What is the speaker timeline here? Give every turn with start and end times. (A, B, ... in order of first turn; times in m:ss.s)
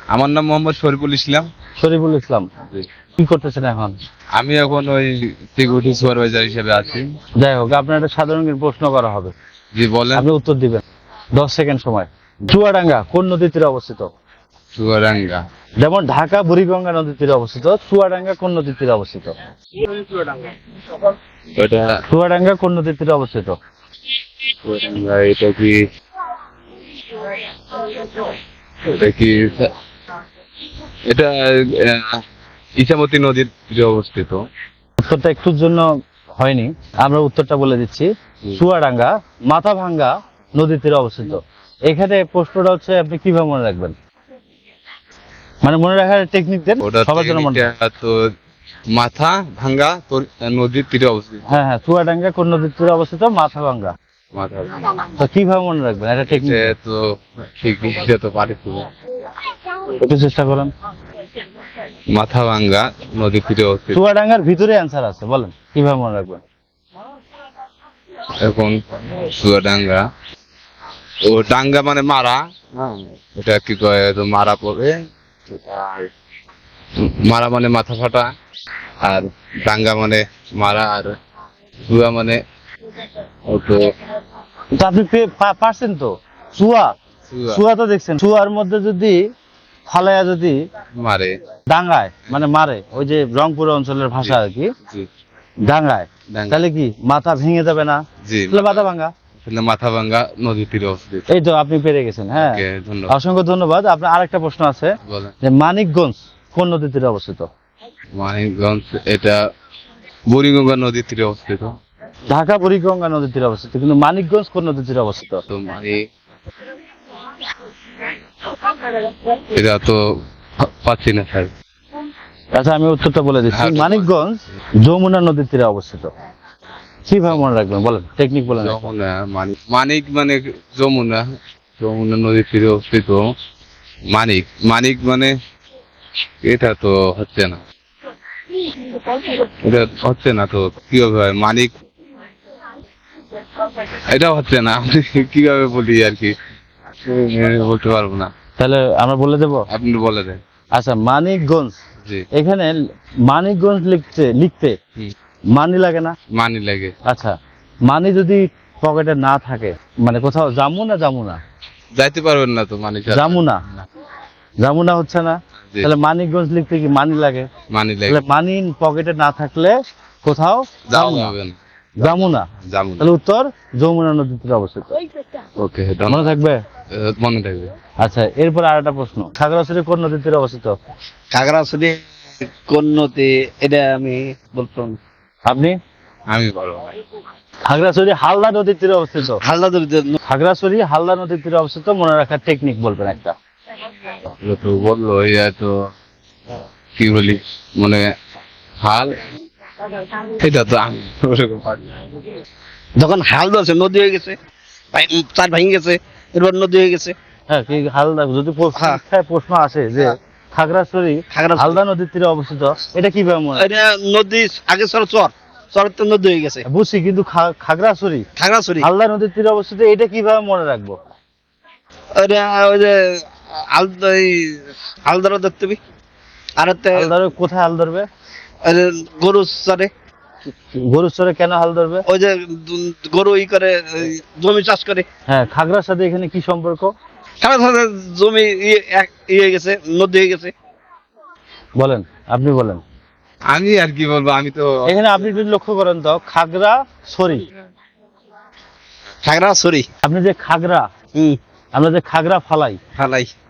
0:00.1-0:01.5 A
0:01.8-0:02.5 B
0:03.2-0:04.0 B
0:04.4-0:07.1 A
0:07.4-0:09.3 B
0:09.7-0:10.3 A
0:10.1-0:10.8 B
0:11.4-0:14.1 B
0:14.8-0:15.4 A
0:15.8-0:19.3 B
0:19.9-0:20.4 A
0:21.6-0:22.0 A
0:22.1-0:23.6 B
0:24.6-0:25.8 A
0:27.8-0:28.3 A
0:28.8-0:29.7 A
0:31.1-0:32.2 A
0:32.8-0:34.4 A
0:35.0-0:43.9 B
0:45.6-0:47.7 B
0:46.8-0:48.2 A
0:48.9-0:51.6 A
0:51.5-0:53.9 B
0:54.3-0:55.1 A
0:55.2-0:56.7 B
0:56.3-0:57.0 A
0:57.6-0:58.9 A
0:59.8-1:00.7 B
1:02.1-1:04.0 A
1:03.9-1:06.4 B
1:08.4-1:10.0 A
1:11.3-1:16.1 A
1:17.0-1:18.3 A
1:19.0-1:21.1 A
1:21.9-1:22.4 A
1:23.5-1:23.8 A
1:24.8-1:26.9 B
1:27.3-1:27.6 A
1:27.5-1:29.2 B
1:29.9-1:30.6 B
1:31.0-1:31.4 A
1:31.7-1:34.7 B
1:35.7-1:39.1 B
1:36.3-1:36.6 A
1:38.2-1:38.9 A
1:39.4-1:41.2 A
1:41.3-1:44.9 B
1:42.4-1:43.2 A
1:45.1-1:45.4 A
1:45.4-1:47.5 B
1:48.2-1:49.4 A
1:50.3-1:51.7 A
1:52.3-1:55.4 B
1:55.5-1:56.0 A
1:59.3-2:00.0 A
2:00.6-2:01.5 A
2:02.6-2:06.1 B
2:03.5-2:04.1 A
2:07.1-2:08.9 B
2:08.5-2:11.2 A
2:11.8-2:13.2 A
2:14.1-2:15.3 A
2:16.5-2:17.6 A
2:18.6-2:21.7 A
2:23.6-2:26.4 A
2:27.1-2:28.3 A
2:28.6-2:29.6 B
2:29.7-2:30.4 A
2:30.8-2:31.8 B
2:32.3-2:34.8 B
2:35.6-2:36.2 B
2:36.3-2:37.0 A
2:37.1-2:37.4 B
2:37.9-2:41.4 B
2:42.0-2:43.9 A
2:43.1-2:43.6 B
2:44.6-2:47.5 B
2:47.7-2:48.2 A
2:48.1-2:51.3 B
2:50.9-2:51.6 A
2:52.0-2:52.5 B
2:52.7-2:53.1 A
2:53.0-2:55.0 B
2:55.6-2:56.3 A
2:56.1-2:56.6 B
2:56.9-2:57.7 A
2:58.0-3:00.8 B
3:01.3-3:02.0 C
3:02.6-3:05.0 C
3:05.5-3:05.8 B
3:06.3-3:07.0 A
3:07.6-3:09.4 B
3:09.4-3:10.2 C
3:10.3-3:13.4 B
3:14.4-3:15.7 A
3:17.0-3:18.0 A
3:18.8-3:19.2 A
3:20.0-3:22.2 A
3:23.0-3:24.4 C
3:24.9-3:27.2 C
3:27.5-3:33.7 B
3:28.8-3:29.0 C
3:31.3-3:31.8 C
3:33.6-3:36.6 C
3:36.7-3:38.3 B
3:38.4-3:38.9 C
3:38.8-3:41.0 B
3:42.2-3:45.8 C
3:46.6-3:47.1 C
3:46.9-3:48.1 B
3:48.6-3:49.9 C
3:50.7-3:52.0 B
3:52.1-3:55.1 C
3:55.3-3:56.9 B
3:57.4-4:00.5 C
4:01.8-4:02.8 B
4:03.5-4:05.0 A
4:04.9-4:07.5 B
4:09.2-4:09.9 C
4:10.0-4:10.9 B
4:11.8-4:12.8 B
4:13.0-4:13.3 C